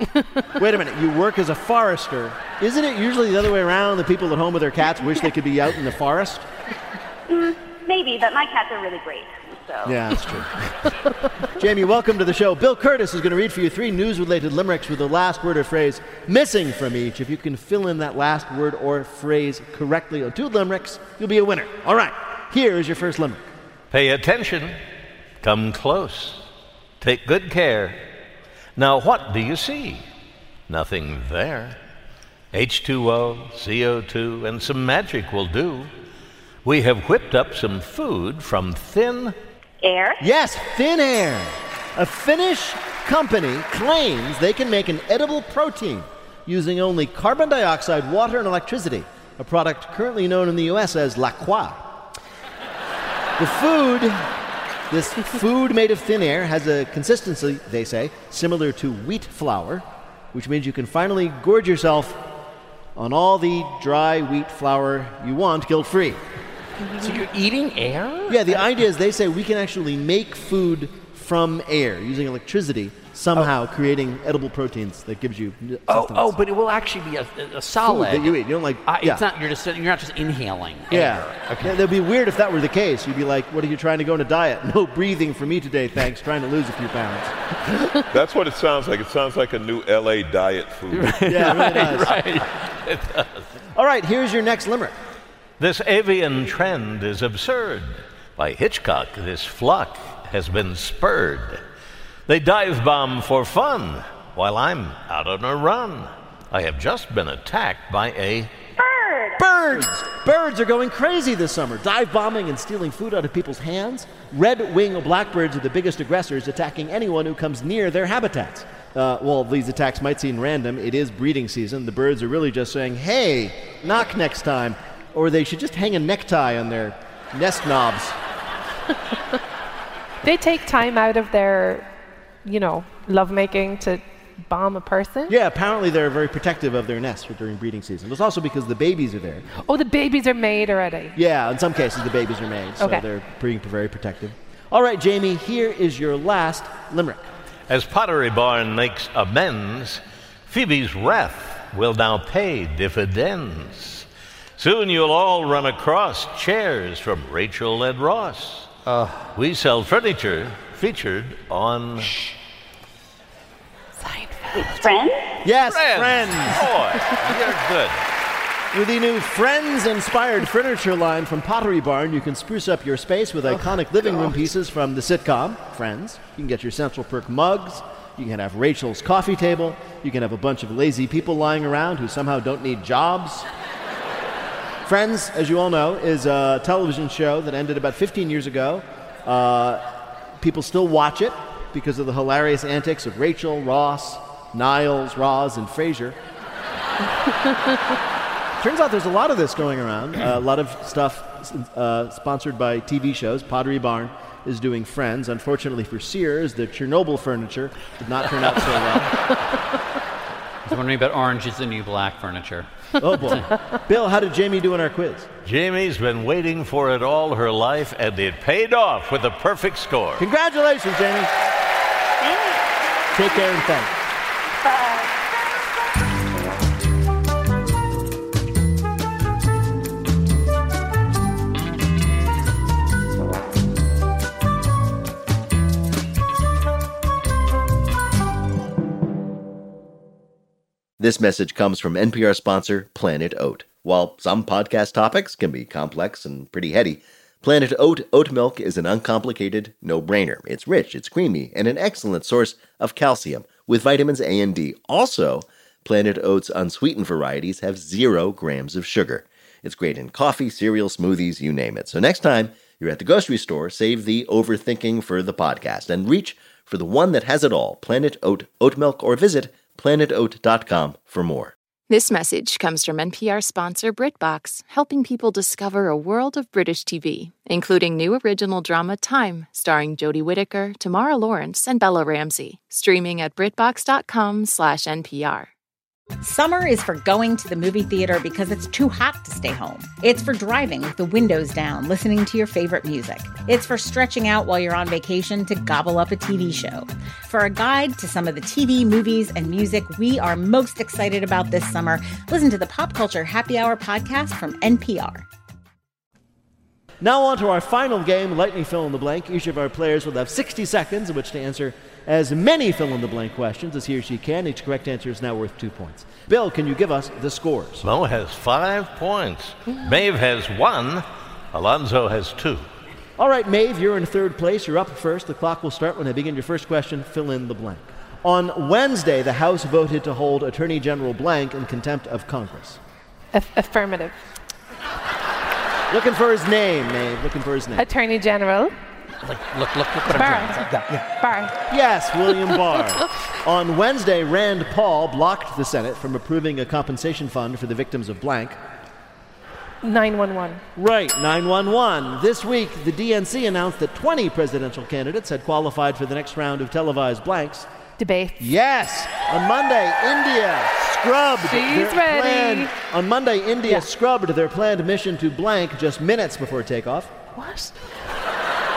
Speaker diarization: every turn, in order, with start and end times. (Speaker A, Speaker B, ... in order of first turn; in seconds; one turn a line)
Speaker A: 0.6-6.5
Speaker B: 7.3-10.0
Speaker A: 9.8-10.5
Speaker A: 11.5-23.5
Speaker C: 23.9-24.8
Speaker C: 25.4-26.4
Speaker C: 27.0-28.0
Speaker C: 28.8-30.0
Speaker C: 30.7-31.8
Speaker C: 32.5-35.9
Speaker C: 36.6-39.4
Speaker B: 39.8-40.2
Speaker A: 40.2-52.0
Speaker A: 53.4-54.2
Speaker A: 54.9-62.2
Speaker A: 63.0-66.2
Speaker D: 67.0-68.7
Speaker A: 68.3-76.3
Speaker D: 75.9-81.8
Speaker A: 77.8-79.2
Speaker A: 80.9-87.6
Speaker E: 88.1-91.2
Speaker D: 90.9-92.5
Speaker A: 91.3-92.1
Speaker C: 92.9-93.4
Speaker A: 93.7-94.9
Speaker C: 95.6-101.6
Speaker C: 102.3-108.5
Speaker B: 108.8-109.4
Speaker A: 109.4-128.2
Speaker F: 130.2-131.9
Speaker F: 132.4-135.3
Speaker A: 135.3-139.5
Speaker F: 139.6-141.1
Speaker A: 141.2-147.3
Speaker C: 147.7-154.1
Speaker C: 154.6-158.7
Speaker D: 158.8-159.3
Speaker C: 159.3-162.1
Speaker D: 164.0-164.9
Speaker B: 164.5-165.3
Speaker A: 165.4-166.7
Speaker C: 165.7-168.0
Speaker A: 168.7-183.5
Speaker A: 184.8-189.8
Speaker A: 190.4-196.2
Speaker A: 198.6-209.2
Speaker D: 210.7-213.4
Speaker A: 213.0-215.3
Speaker C: 215.4-220.2
Speaker A: 220.2-221.3
Speaker B: 222.2-222.6
Speaker A: 223.1-223.9
Speaker B: 224.6-225.1
Speaker G: 241.0-271.5
Speaker H: 271.9-285.5
Speaker I: 286.2-305.2
Speaker A: 307.0-317.8
Speaker C: 317.8-322.6
Speaker A: 323.2-332.8
Speaker F: 333.3-334.2
Speaker A: 335.9-337.9
Speaker F: 337.8-338.7
Speaker D: 339.2-340.8
Speaker F: 340.1-341.6
Speaker A: 341.7-348.6
Speaker F: 349.8-350.6
Speaker A: 350.8-357.7
Speaker F: 358.0-358.5
Speaker A: 358.4-367.1
Speaker F: 361.4-362.7
Speaker F: 367.3-367.8